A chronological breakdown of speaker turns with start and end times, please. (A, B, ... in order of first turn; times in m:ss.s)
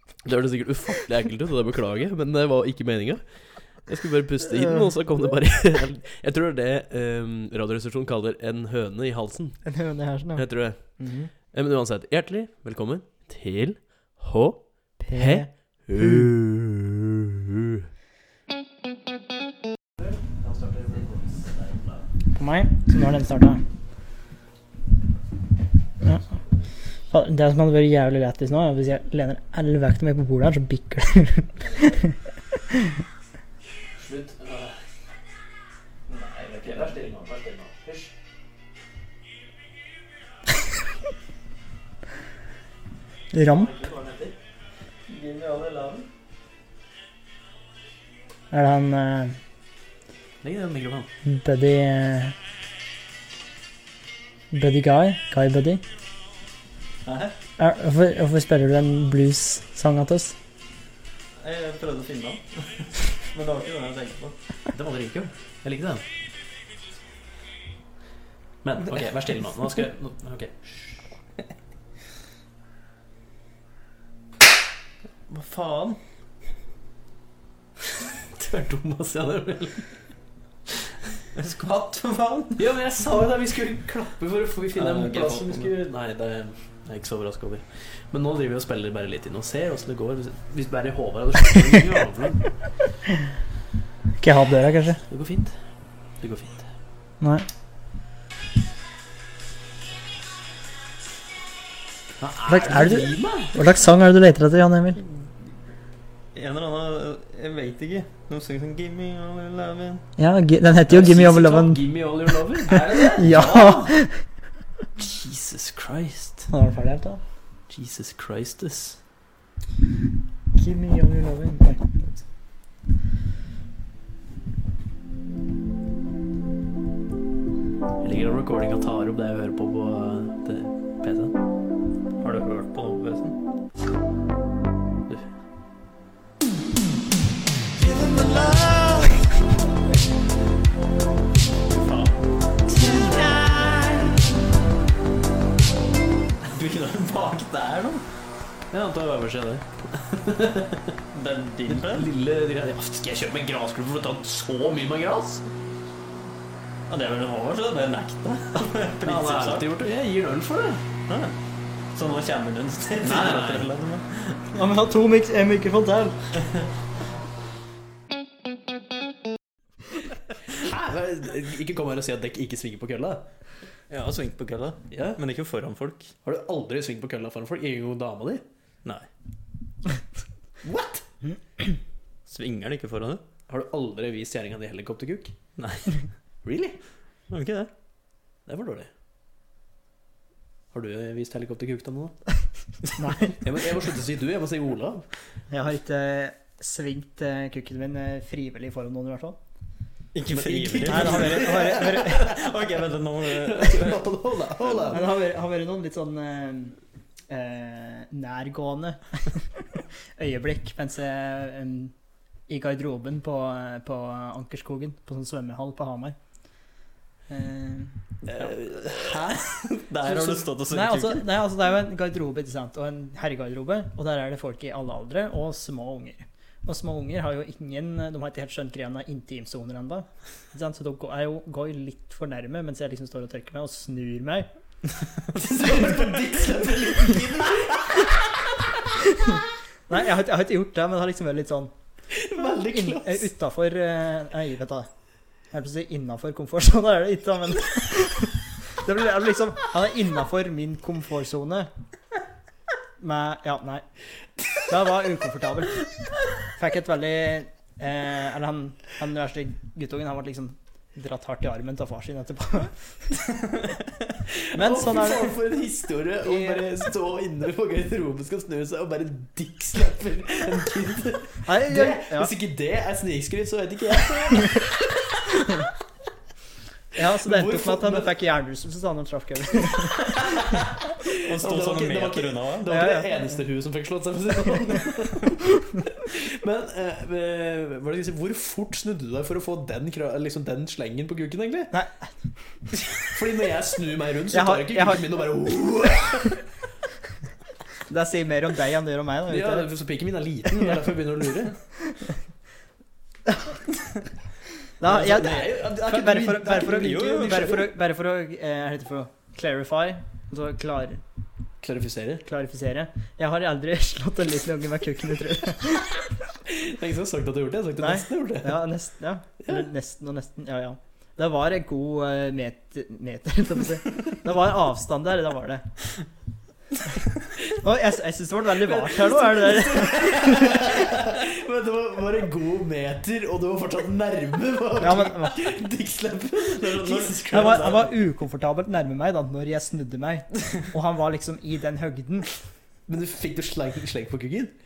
0:00.2-0:09.6 A
0:09.6-0:11.3 B
0:10.4-0:17.8 A
0:15.0-0:16.3 B
0:20.0-0:22.0 A
0:22.4-0:23.6 B
0:27.1-0:32.1 B
0:33.9-0:34.8 A
0:36.1-0:38.1 A
0:43.3-0:43.7 B
0:43.4-0:44.4 A
0:45.1-0:46.1 C
0:48.5-0:49.4 B
0:50.4-0:51.1 A
0:51.3-0:52.4 B
0:54.5-0:55.8 B
0:57.1-0:57.4 C
0:57.6-1:00.4 B
1:01.4-1:04.4 C
1:04.7-1:06.0 A
1:08.6-1:10.6 A
1:15.3-1:16.0 C
1:18.2-1:19.8 A
1:21.4-1:22.7 C
1:22.6-1:32.5 A
1:24.8-1:25.7 C
1:34.2-1:35.0 B
1:35.1-1:35.6 A
1:36.2-1:36.7 A
1:37.2-1:37.4 B
1:42.2-1:43.6 A
1:42.5-1:45.0 B
1:46.4-1:50.0 C
1:50.2-1:51.8 B
1:50.9-1:53.9 A
1:52.7-1:53.9 C
1:52.7-1:54.2 B
1:55.0-1:56.5 A
1:56.5-1:57.2 B
1:57.7-1:59.0 A
2:00.6-2:02.0 B
2:08.0-2:11.4 A
2:12.2-2:13.4 C
2:17.8-2:19.2 C
2:21.7-2:22.2 C
2:22.7-2:24.1 A
2:22.8-2:23.9 C
2:26.4-2:28.0 C
2:28.7-2:31.0 A
2:31.1-2:32.1 C
2:31.7-2:35.4 A
2:36.9-2:39.8 C
2:39.0-2:40.8 A
2:41.1-2:41.3 C
2:41.9-2:44.4 C
2:43.0-2:43.7 A
2:44.5-2:46.2 B
2:50.5-2:53.3 A
2:53.9-2:56.1 C
2:54.9-2:55.2 A
2:56.2-2:58.4 A
3:00.6-3:01.1 A
3:02.3-3:03.2 C
3:03.5-3:05.4 A
3:05.6-3:06.0 C
3:06.4-3:06.8 A
3:07.3-3:07.7 C
3:08.4-3:08.9 A
3:10.7-3:12.2 A
3:13.0-3:13.4 B
3:13.4-3:15.1 A
3:15.5-3:19.4 B
3:20.1-3:24.1 C
3:20.3-3:22.5 A
3:20.9-3:22.4 B
3:23.2-3:25.0 A
3:24.6-3:25.0 C
3:24.9-3:26.8 B
3:27.3-3:31.9 B
3:32.5-3:36.2 B
3:37.3-3:38.5 B
3:38.3-3:41.3 C
3:40.1-3:54.5 B
3:55.4-3:58.6 A
3:59.1-4:01.7 B
4:02.1-4:03.3 A
4:02.7-4:04.9 B
4:05.5-4:11.7 B
4:13.0-4:13.8 B
4:14.6-4:15.9 B
4:16.4-4:22.8 B
4:24.3-4:35.5 A
4:24.5-4:25.4 B
4:26.2-4:26.6 B
4:31.5-4:32.3 B
4:36.9-4:40.2 B
4:37.2-4:38.1 A
4:40.0-4:51.7 A
4:41.2-4:42.8 C
4:42.7-4:43.1 B
4:51.7-4:52.0 B
4:52.9-4:56.4 A
4:54.3-4:55.1 B
4:57.9-4:59.7 B
4:59.3-5:01.6 A
5:04.8-5:11.0 B
5:04.8-5:07.7 A
5:06.9-5:07.2 C
5:11.6-5:12.3 A
5:12.3-5:16.0 B
5:16.4-5:18.7 A
5:17.8-5:25.6 B
5:19.4-5:19.7 A
5:27.6-5:30.8 B
5:28.6-5:37.9 A
5:34.8-5:35.6 B
5:36.5-5:37.8 C
5:37.3-5:42.3 B
5:42.9-5:44.5 A